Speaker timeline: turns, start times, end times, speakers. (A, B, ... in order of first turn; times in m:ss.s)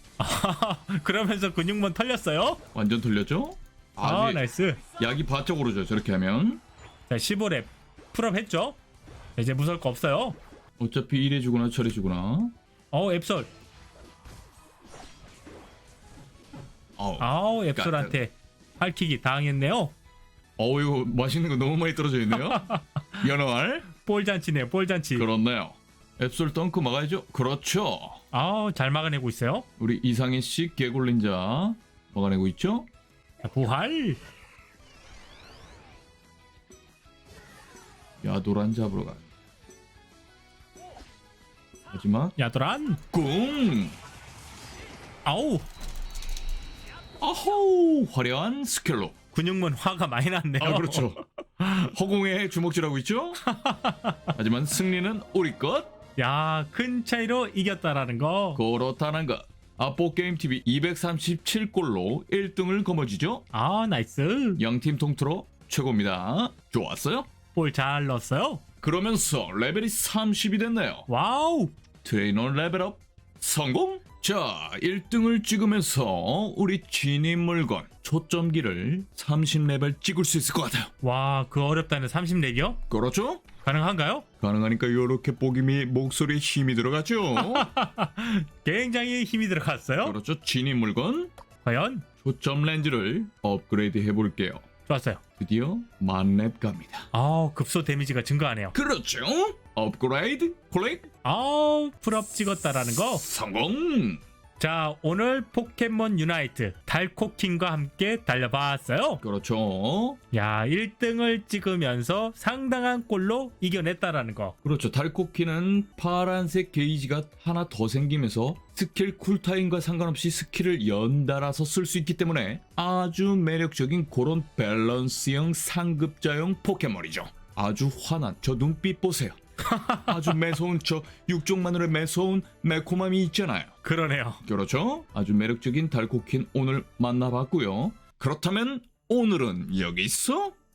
0:00.2-0:02.6 A
0:02.7-0:04.4 B
0:04.0-0:04.8 A
0:05.0-0:06.6 B
0:07.1-0:08.8 A
0:09.4-0:10.4 A
0:10.8-0:12.5 B
0:12.9-0:13.5 A
0:17.0-0:18.2 B
0:17.2-0:19.9 A
0:20.6-0:23.9 B
0:22.3-0:23.3 A
0:23.9-0:25.3 A
0:25.1-0:28.2 B
0:28.3-0:29.6 A
0:29.8-0:32.9 B
0:33.4-0:34.2 A
0:38.2-0:39.2 B
0:41.9-0:42.4 B
0:42.4-0:43.0 A
0:43.1-0:44.0 B
0:45.2-0:45.7 A
0:47.2-0:49.1 B
0:49.3-0:51.2 A
0:50.6-0:53.4 B
0:53.4-0:54.3 A
0:54.4-0:55.9 B
0:56.2-0:58.6 A
0:58.6-1:03.4 B
1:03.5-1:04.6 A
1:04.6-1:07.3 B
1:07.5-1:08.6 A
1:08.8-1:11.1 B
1:11.1-1:11.7 A
1:12.0-1:20.9 B
1:21.0-1:22.8 A
1:22.9-1:23.4 B
1:23.6-1:24.2 A
1:24.4-1:27.7 B
1:27.4-1:30.2 A
1:30.0-1:31.3 B
1:31.6-1:32.0 A
1:32.2-1:34.6 B
1:34.9-1:35.2 A
1:35.4-1:37.1 B
1:37.1-1:38.8 A
1:38.7-1:41.1 B
1:41.2-1:43.2 A
1:43.1-1:44.2 B
1:44.6-1:49.2 A
1:49.2-1:50.2 B
1:50.3-1:54.6 A
1:54.6-2:09.4 B
2:09.7-2:10.3 A
2:10.1-2:13.8 B
2:13.8-2:14.4 A
2:14.4-2:20.6 B